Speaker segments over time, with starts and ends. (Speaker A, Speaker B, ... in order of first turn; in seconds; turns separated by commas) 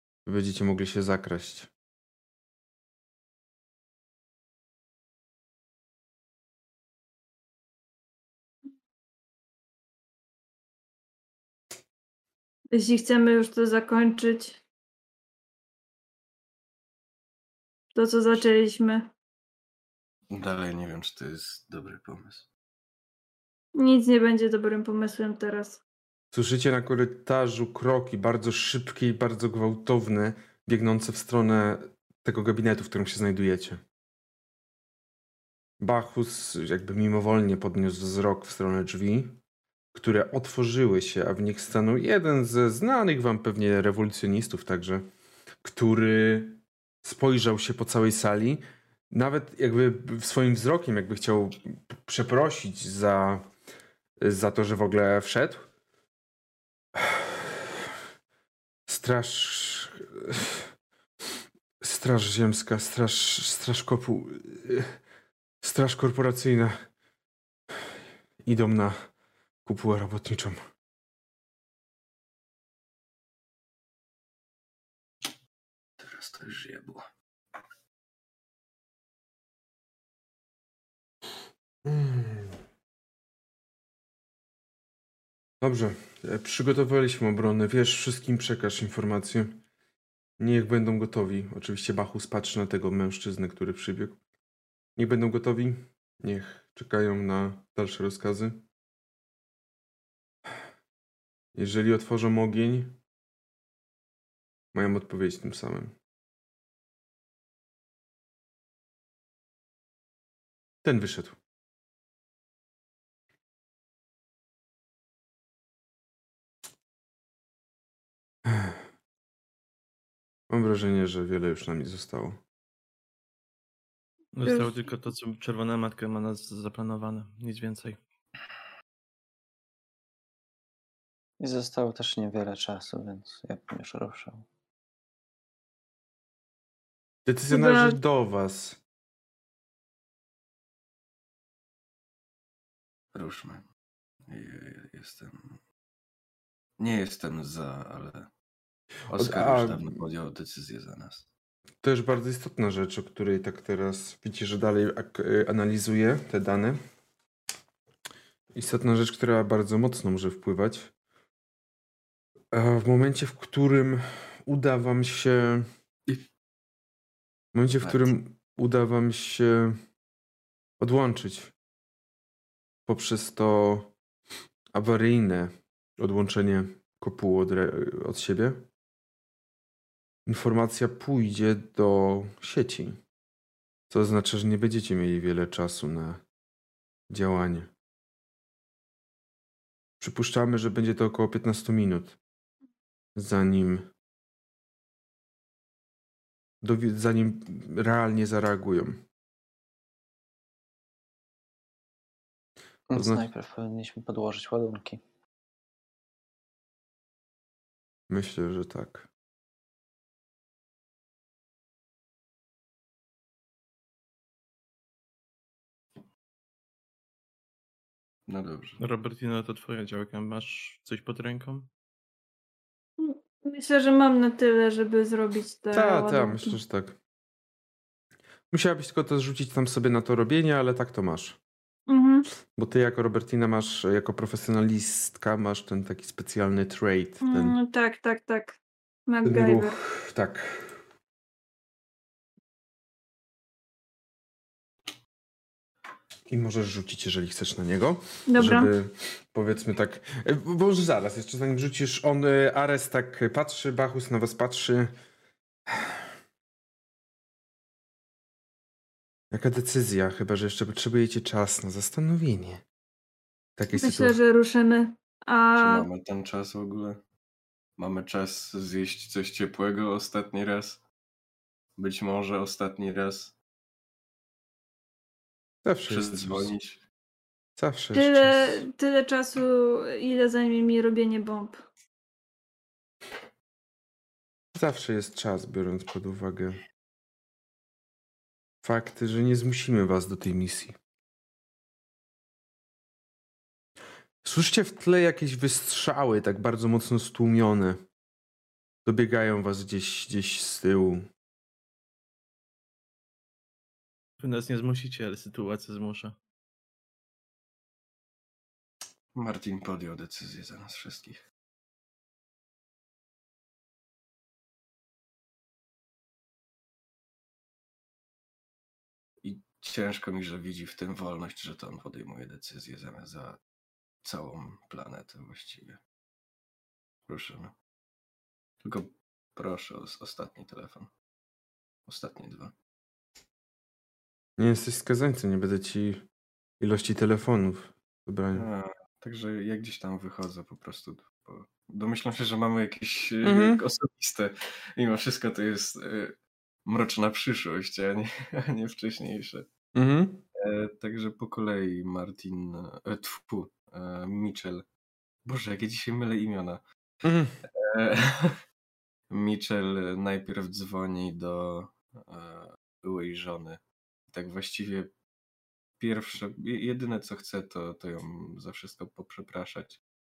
Speaker A: 0.3-1.7, Speaker B: 12.7-14.6, Speaker B: 17.9-19.1, Speaker C: 20.3-22.5, Speaker B: 23.8-25.8, Speaker A: 26.3-33.8, Speaker A: 35.8-39.4, Speaker A: 39.9-45.1, Speaker A: 45.6-53.4, Speaker A: 54.2-55.7, Speaker A: 57.0-57.8, Speaker A: 58.9-60.7, Speaker A: 61.8-65.0, Speaker A: 65.6-66.8, Speaker A: 68.4-69.0, Speaker A: 69.7-70.6, Speaker C: 76.0-77.1, Speaker A: 81.8-82.6, Speaker A: 85.6-89.6, Speaker A: 90.4-94.2, Speaker A: 95.0-98.6, Speaker A: 101.5-103.0, Speaker A: 104.7-106.0, Speaker A: 110.8-111.4, Speaker A: 118.5-118.8, Speaker A: 120.5-122.4, Speaker D: 124.3-128.0, Speaker B: 124.5-124.8, Speaker E: 131.4-134.4, Speaker A: 137.3-138.8, Speaker B: 137.5-138.0, Speaker C: 143.1-143.7, Speaker C: 144.3-145.6, Speaker C: 146.8-148.3, Speaker C: 149.1-151.3, Speaker A: 149.2-149.9, Speaker A: 151.8-156.8, Speaker A: 158.5-160.9, Speaker A: 162.5-165.7, Speaker A: 167.5-169.8, Speaker C: 167.8-168.1, Speaker A: 170.8-171.5, Speaker A: 172.9-173.9, Speaker A: 174.7-178.7, Speaker A: 180.3-183.0, Speaker A: 183.9-186.2, Speaker A: 187.1-187.7, Speaker A: 190.0-192.2, Speaker A: 193.2-193.9, Speaker A: 196.6-199.0, Speaker E: 202.9-205.0, Speaker A: 202.9-203.3, Speaker A: 208.1-209.1, Speaker C: 218.3-218.8, Speaker D: 218.8-221.7, Speaker B: 223.0-226.6, Speaker A: 225.7-227.0, Speaker A: 228.5-231.4, Speaker B: 231.9-232.3, Speaker A: 232.5-237.6, Speaker B: 237.2-239.8, Speaker A: 239.2-240.8, Speaker A: 246.3-254.9, Speaker B: 248.3-248.7, Speaker A: 259.3-262.6, Speaker A: 263.6-264.2, Speaker B: 263.7-265.9, Speaker C: 265.6-267.0, Speaker C: 267.8-270.8, Speaker C: 271.8-273.4, Speaker A: 275.6-276.5, Speaker C: 275.9-276.8, Speaker A: 277.6-278.7, Speaker B: 277.9-281.6, Speaker A: 284.5-286.6, Speaker A: 288.6-290.8, Speaker A: 294.2-297.8, Speaker A: 298.9-301.1, Speaker D: 304.2-306.2, Speaker C: 309.1-311.2, Speaker C: 319.2-323.4, Speaker C: 324.0-325.8, Speaker C: 327.1-327.6, Speaker C: 328.6-330.9, Speaker C: 331.9-332.5, Speaker A: 334.4-336.1, Speaker A: 336.6-338.5, Speaker C: 338.3-346.1, Speaker A: 343.2-343.6, Speaker C: 346.7-349.5, Speaker A: 349.8-350.2, Speaker C: 350.4-354.7, Speaker C: 355.2-356.6, Speaker A: 357.0-357.4, Speaker C: 357.5-358.4, Speaker C: 359.1-364.9, Speaker C: 365.8-369.8